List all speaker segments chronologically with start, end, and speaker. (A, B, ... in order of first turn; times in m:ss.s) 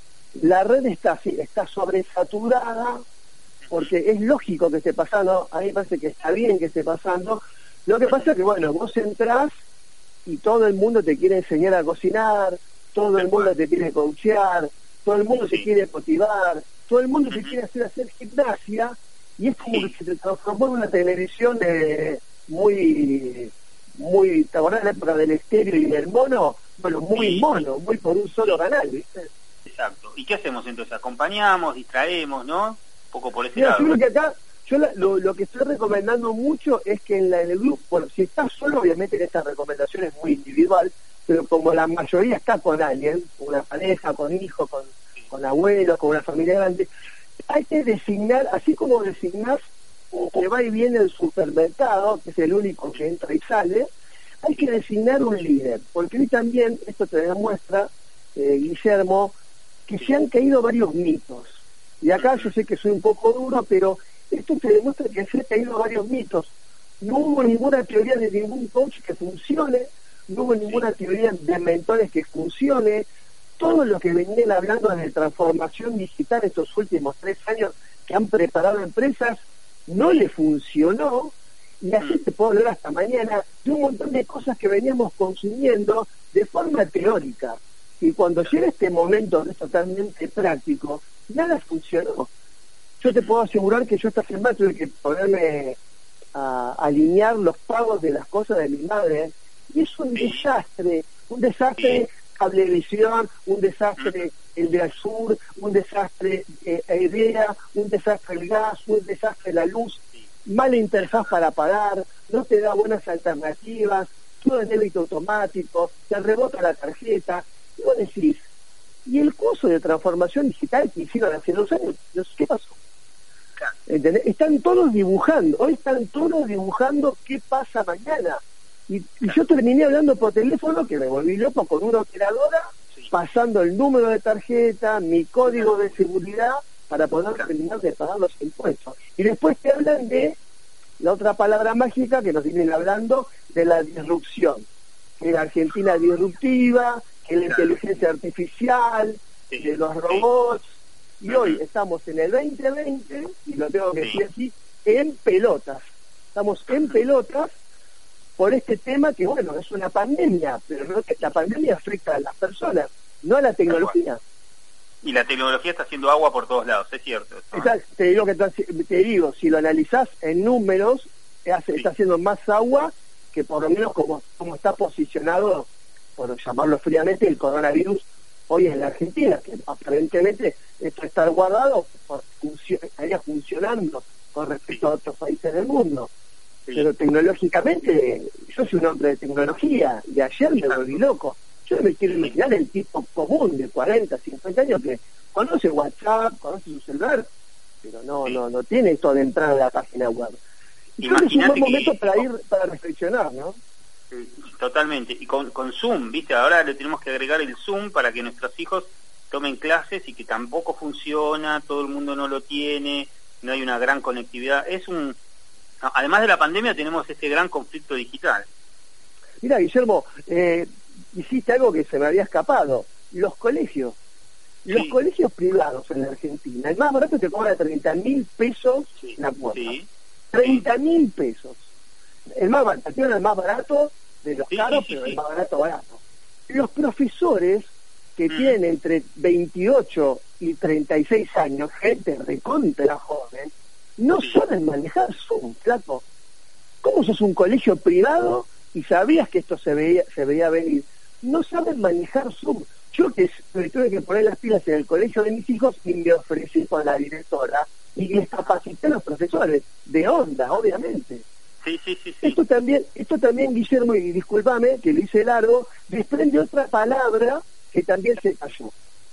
0:00.4-0:03.0 A
0:03.6-0:03.9 B
0:03.7-0:09.5 A
0:10.2-0:29.3 A
0:13.2-0:13.5 B
0:15.4-0:15.6 B
0:17.3-0:17.5 B
0:27.2-0:27.6 B
0:29.6-0:34.0 B
0:33.5-0:46.9 A
0:47.5-0:49.6 A
0:50.1-0:53.9 A
0:54.4-0:59.3 A
0:59.9-1:13.1 A
1:02.2-1:02.5 B
1:13.6-1:32.3 A
1:33.0-1:35.8 A
1:33.0-1:33.4 B
1:36.3-1:58.4 A
1:40.2-1:40.4 B
1:44.0-1:44.2 B
1:59.0-2:02.8 A
2:03.8-2:20.4 A
2:15.5-2:15.7 B
2:21.0-2:24.6 A
2:25.2-2:30.7 A
2:27.5-2:27.7 B
2:29.5-2:30.2 B
2:31.2-2:35.8 A
2:31.3-2:31.6 B
2:36.3-2:37.5 A
2:36.7-2:37.0 B
2:38.4-2:44.2 A
2:45.0-2:47.7 B
2:47.5-3:06.1 A
3:06.7-3:17.3 A
3:10.6-3:11.0 B
3:12.1-3:12.3 B
3:17.8-3:20.4 A
3:21.0-3:22.2 B
3:21.0-3:23.6 A
3:24.1-3:35.2 B
3:35.8-3:38.4 B
3:39.4-3:44.0 A
3:44.6-3:49.8 A
3:44.7-3:44.9 B
3:49.0-3:49.9 B
3:50.3-3:51.6 A
3:52.4-4:06.0 A
3:54.5-3:55.2 B
3:58.3-3:58.6 B
4:06.8-4:21.2 A
4:21.6-4:22.4 B
4:22.2-4:28.7 A